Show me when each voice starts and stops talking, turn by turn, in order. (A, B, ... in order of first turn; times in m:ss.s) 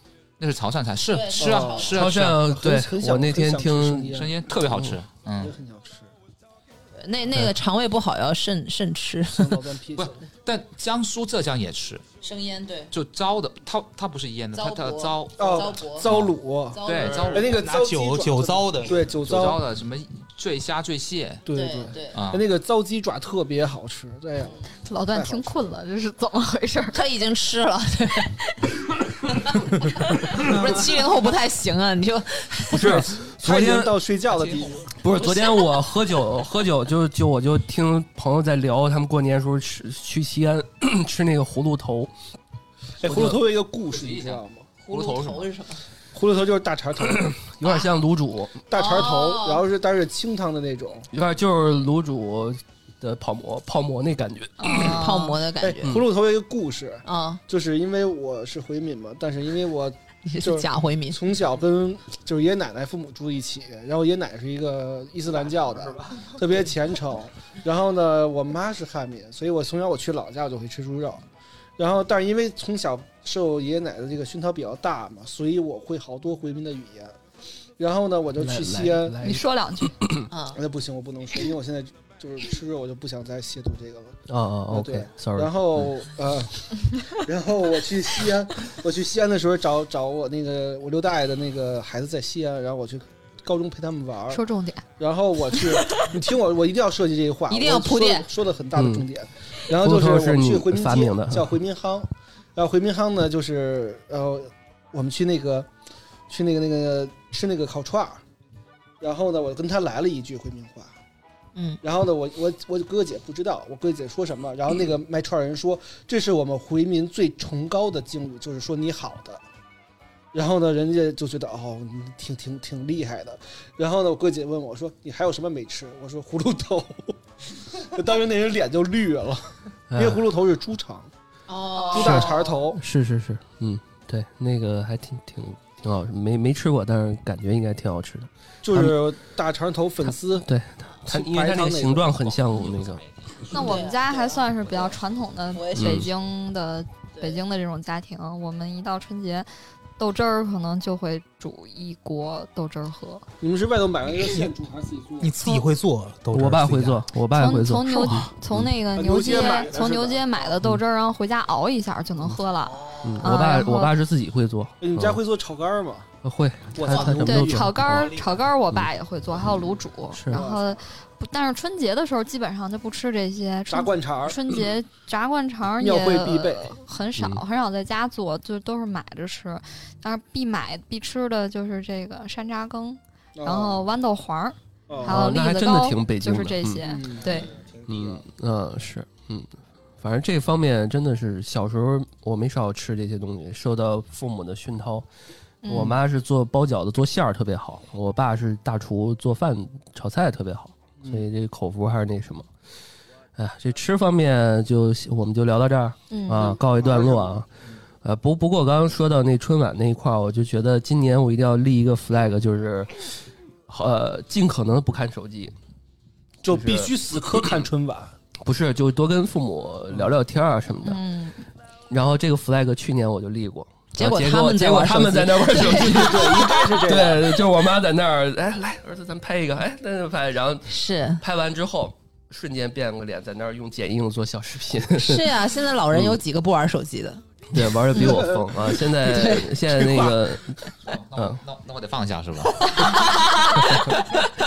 0:00.4-0:02.4 A
0:01.1-0:01.9 B
0:01.4-0:04.5 C
0:01.9-0:05.0 D
0:04.1-0:05.5 A
0:05.4-0:06.1 C
0:06.9-0:09.6 B
0:09.3-0:10.2 C
0:10.0-0:12.0 A
0:12.2-0:12.9 B
0:12.9-0:17.6 A
0:14.5-0:16.1 B
0:15.4-0:19.6 C
0:16.7-0:17.5 B
0:17.4-0:19.1 E
0:19.1-0:21.4 A
0:21.4-0:25.5 C
0:21.5-0:22.2 B
0:22.1-0:22.4 A
0:24.8-0:27.0 F
0:26.9-0:28.7 B
0:29.2-0:33.0 B
0:32.7-0:34.0 D
0:32.8-0:34.9 C
0:34.3-0:34.9 A
0:35.0-0:42.1 D
0:35.1-0:35.7 B
0:43.0-0:44.7 C
0:43.0-0:43.4 D
0:43.9-0:45.5 A
0:44.8-0:45.8 B
0:46.1-0:47.3 C
0:47.1-0:48.6 D
0:48.7-0:51.1 C
0:48.7-0:49.6 B
0:51.1-0:55.0 D
0:54.6-0:55.4 F
0:54.7-0:55.9 B
0:55.6-1:11.2 C
0:57.0-0:57.4 B
1:00.3-1:01.2 B
1:11.8-1:17.2 C
1:17.8-1:19.2 C
1:18.4-1:20.3 D
1:19.2-1:20.0 F
1:20.3-1:20.6 B
1:20.5-1:34.4 C
1:24.3-1:25.9 D
1:34.3-1:34.8 F
1:35.0-1:45.7 C
1:37.5-1:38.3 B
1:38.8-1:39.0 D
1:39.7-1:41.5 D
1:46.3-1:48.2 C
1:49.0-1:50.9 C
1:51.8-1:59.4 C
2:00.3-2:11.1 C
2:09.9-2:10.2 D
2:11.5-2:12.4 B
2:11.8-2:12.8 C
2:11.9-2:19.0 D
2:18.6-2:20.5 C
2:20.4-2:23.0 D
2:21.0-2:22.3 C
2:22.4-2:23.9 A
2:23.5-2:24.3 B
2:23.5-2:33.2 F
2:25.5-2:26.0 B
2:25.7-2:26.1 D
2:33.4-2:35.4 C
2:35.2-2:37.0 E
2:36.3-2:38.7 D
2:37.3-2:44.0 F
2:38.9-2:40.5 C
2:42.8-2:43.1 E
2:43.0-2:45.2 D
2:44.8-2:46.1 C
2:46.2-2:48.1 D
2:46.7-2:47.7 C
2:46.9-2:47.2 B
2:47.2-3:07.5 F
2:47.9-2:48.4 E
2:50.1-2:50.4 D
2:50.3-2:50.8 C
2:53.7-2:54.4 C
2:55.8-2:56.8 C
3:03.4-3:03.8 C
3:04.9-3:05.2 C
3:05.0-3:06.8 D
3:06.8-3:07.4 C
3:07.4-3:07.9 E
3:07.9-3:15.0 D
3:15.6-3:16.0 F
3:15.7-3:22.5 D
3:23.4-3:27.5 D
3:26.1-3:26.6 F
3:26.8-3:27.4 C
3:28.0-3:33.1 D
3:33.7-3:35.5 D
3:36.4-3:38.1 C
3:36.5-3:36.9 D
3:38.4-3:41.0 D
3:40.8-3:41.4 F
3:41.9-3:56.2 D
3:44.0-3:46.8 B
3:45.8-3:47.4 C
3:50.7-3:51.2 B
3:55.0-3:57.2 B
3:57.5-4:00.6 D
3:57.9-3:58.3 B
3:59.0-4:00.0 B
4:00.8-4:03.0 A
4:01.2-4:01.4 D
4:03.2-4:03.5 B
4:03.6-4:04.0 D